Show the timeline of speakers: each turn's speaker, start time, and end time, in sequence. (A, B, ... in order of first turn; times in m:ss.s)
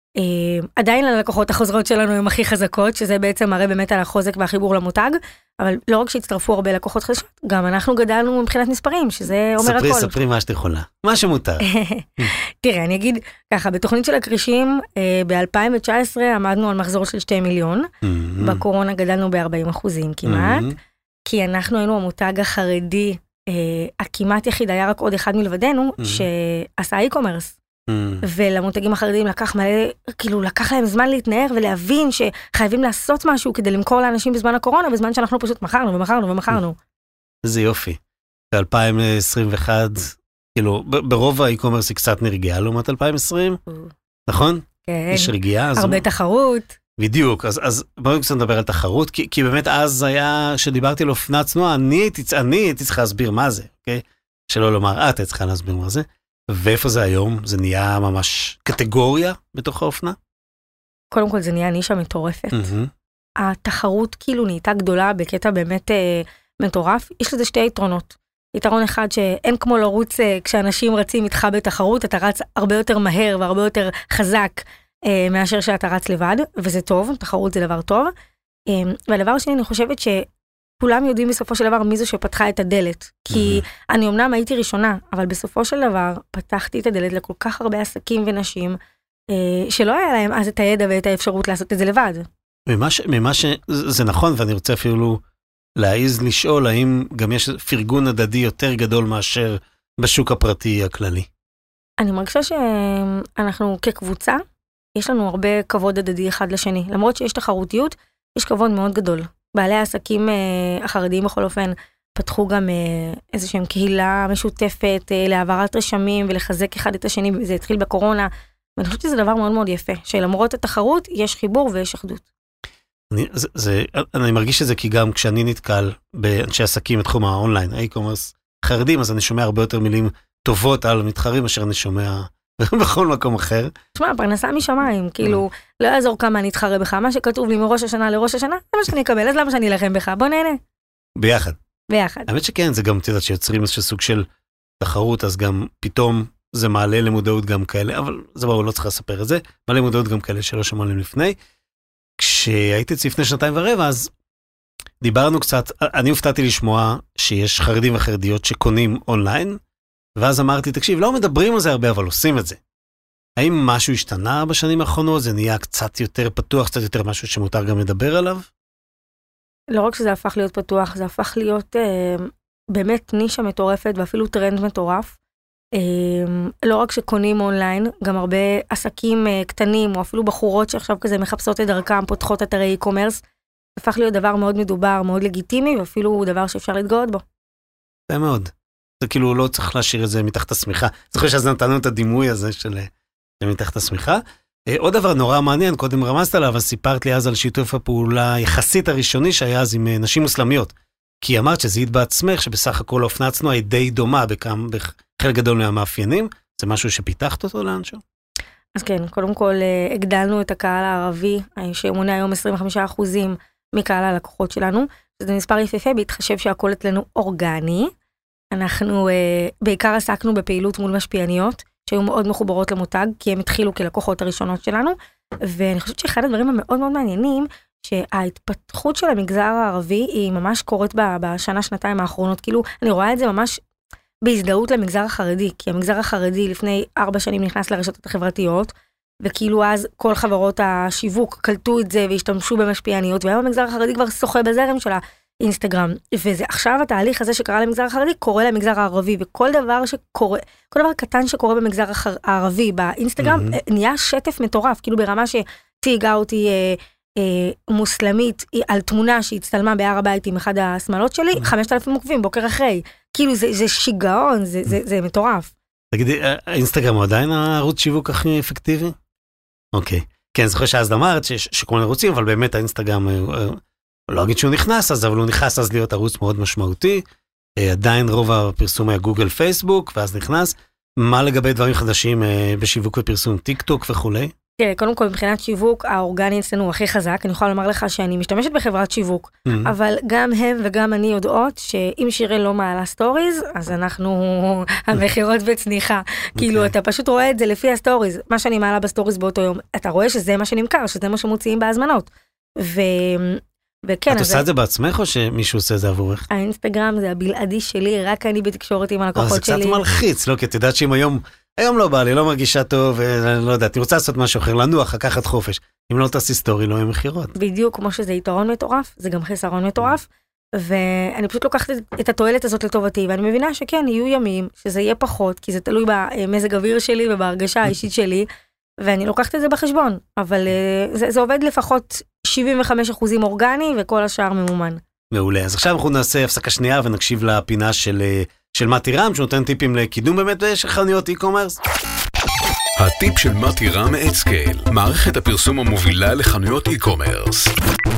0:00.2-0:10.1 A
0:09.6-0:11.7 B
0:11.6-0:17.9 A
0:18.0-0:18.6 B
0:18.4-0:20.7 A
0:20.2-0:20.8 B
0:21.2-0:27.6 A
0:26.0-0:26.2 B
0:27.9-0:28.2 B
0:28.2-0:36.8 A
0:37.4-0:38.0 B
0:38.5-0:43.6 B
0:43.7-0:43.9 A
0:44.3-0:46.0 B
0:44.8-0:46.8 A
0:47.0-1:00.2 B
1:01.1-1:02.7 A
1:02.5-1:02.9 B
1:03.4-1:18.1 A
1:18.7-1:20.2 A
1:20.8-1:28.8 A
1:23.3-1:23.6 B
1:29.3-1:32.3 A
1:32.7-1:35.2 B
1:35.8-1:41.3 B
1:42.0-1:44.4 A
1:45.0-2:02.2 A
2:03.1-2:13.7 B
2:14.0-2:20.6 A
2:21.2-2:21.6 B
2:21.9-2:22.3 A
2:22.3-2:24.3 B
2:24.8-2:31.4 B
2:32.2-2:34.1 B
2:35.0-2:39.6 B
2:40.2-2:42.6 B
2:43.4-2:48.5 B
2:49.7-2:55.2 A
2:55.7-3:03.2 A
3:03.8-3:07.2 A
3:08.1-3:12.9 B
3:13.4-3:28.0 B
3:28.7-3:37.9 A
3:38.5-3:53.6 A
3:54.2-4:25.5 A
4:13.2-4:13.6 B
4:25.9-4:29.0 B
4:29.7-4:37.0 B
4:37.6-4:44.3 B
4:44.6-5:04.5 A
4:49.5-4:49.7 B
4:56.4-4:56.7 B
5:04.1-5:06.3 B
5:06.3-5:09.8 A
5:09.2-5:17.3 B
5:17.4-5:28.3 A
5:28.8-5:34.8 A
5:35.1-5:41.6 B
5:42.8-5:47.5 C